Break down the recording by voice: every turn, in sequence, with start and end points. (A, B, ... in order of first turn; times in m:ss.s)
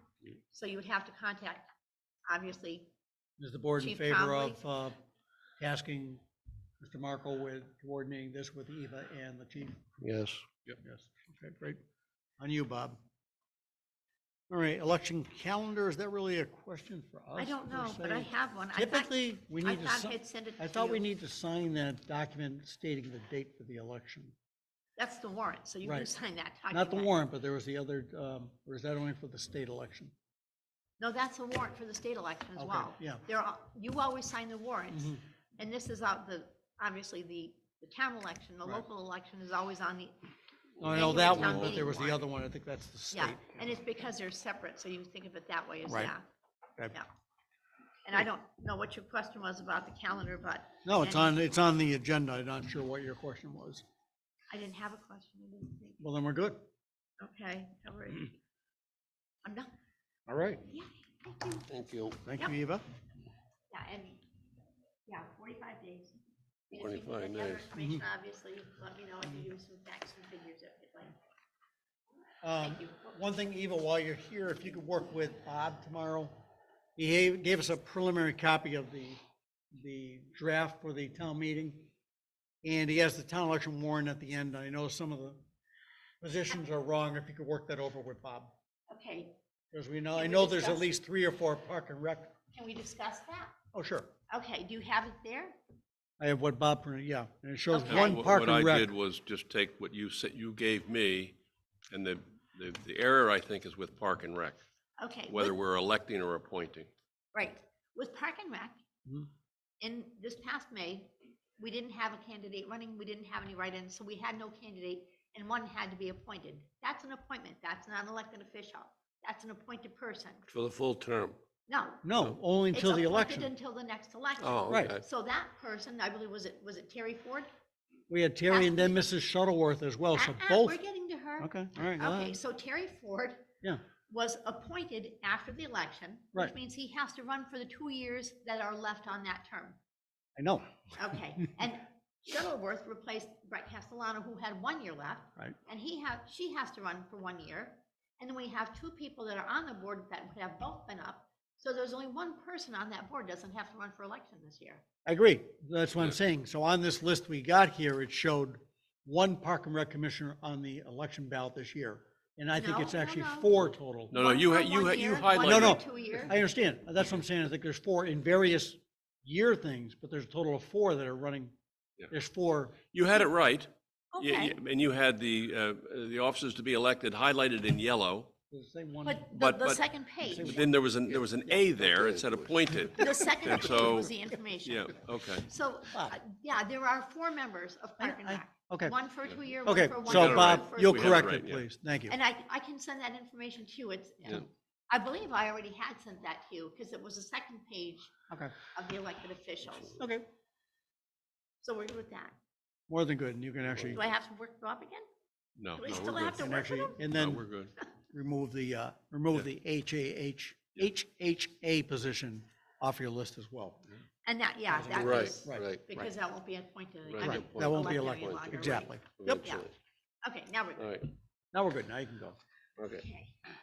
0:00.5-0:01.7 A
0:02.3-0:02.9 A
0:03.4-0:05.0 B
0:03.8-0:04.6 A
0:05.6-0:06.2 B
0:06.8-0:09.8 B
0:10.0-0:10.4 C
0:10.8-0:11.8 B
0:12.4-0:13.0 B
0:14.5-0:24.3 B
0:17.4-0:21.0 A
0:25.0-0:27.2 A
0:25.8-0:26.1 B
0:26.7-0:30.1 B
0:31.0-0:40.2 A
0:32.6-0:33.2 B
0:34.9-0:35.2 B
0:40.8-0:43.7 B
0:40.8-0:42.2 A
0:40.9-0:41.4 C
0:43.1-0:46.2 A
0:45.9-0:46.1 B
0:48.0-0:51.4 A
0:50.8-0:53.8 B
0:54.5-0:56.0 A
0:56.0-0:56.6 B
0:57.2-0:58.3 A
0:59.4-0:59.7 A
1:00.3-1:00.6 B
1:00.6-1:01.7 A
1:01.7-1:02.2 C
1:02.2-1:02.8 B
1:03.7-1:04.2 A
1:05.1-1:06.2 A
1:06.7-1:11.1 A
1:06.8-1:07.7 C
1:07.8-1:08.0 B
1:12.4-1:16.3 B
1:12.6-1:13.0 A
1:17.0-1:19.2 B
1:19.7-1:21.9 B
1:22.6-1:25.4 B
1:26.2-1:28.5 B
1:28.9-1:29.3 A
1:29.7-1:32.3 B
1:30.1-1:30.8 A
1:32.5-1:33.5 A
1:33.7-1:34.1 B
1:34.3-1:35.6 A
1:36.2-1:38.9 B
1:37.7-1:38.3 A
1:37.8-1:41.4 D
1:41.9-1:44.6 D
1:45.0-1:45.6 A
1:45.3-1:46.9 D
1:47.3-1:48.8 A
1:49.8-2:00.5 A
2:00.5-2:01.4 C
2:01.7-2:02.0 A
2:02.0-2:03.5 B
2:02.7-2:07.5 A
2:04.4-2:05.0 C
2:04.7-2:04.9 B
2:08.1-2:10.8 B
2:08.5-2:09.0 A
2:10.1-2:13.4 A
2:11.4-2:12.4 B
2:14.1-2:19.8 A
2:20.4-2:20.7 B
2:21.0-2:34.8 A
2:35.0-2:44.2 B
2:42.5-2:43.5 A
2:44.1-2:45.8 D
2:44.1-2:46.4 A
2:45.4-2:51.5 B
2:52.1-2:52.8 B
2:52.9-2:58.3 D
2:54.1-2:54.6 A
2:58.5-2:59.3 B
2:59.0-3:00.6 A
2:59.3-3:04.1 D
3:00.2-3:01.9 B
3:01.9-3:02.4 C
3:02.9-3:11.4 A
3:04.6-3:05.5 D
3:08.0-3:08.9 B
3:09.6-3:12.2 B
3:10.0-3:11.6 D
3:12.1-3:18.1 A
3:18.7-3:20.0 A
3:20.0-3:20.2 B
3:21.6-3:22.3 A
3:22.9-3:24.0 B
3:23.8-3:25.0 A
3:25.6-3:26.4 D
3:25.7-3:27.1 A
3:25.9-3:27.5 B
3:27.0-3:27.7 D
3:28.1-3:33.8 B
3:34.2-3:39.7 A
3:34.7-3:35.7 B
3:34.9-3:36.1 C
3:37.1-3:39.6 C
3:37.2-3:39.4 B
3:40.2-3:41.0 A
3:40.8-3:41.0 C
3:41.5-3:42.4 B
3:42.8-3:43.0 C
3:42.9-3:43.3 A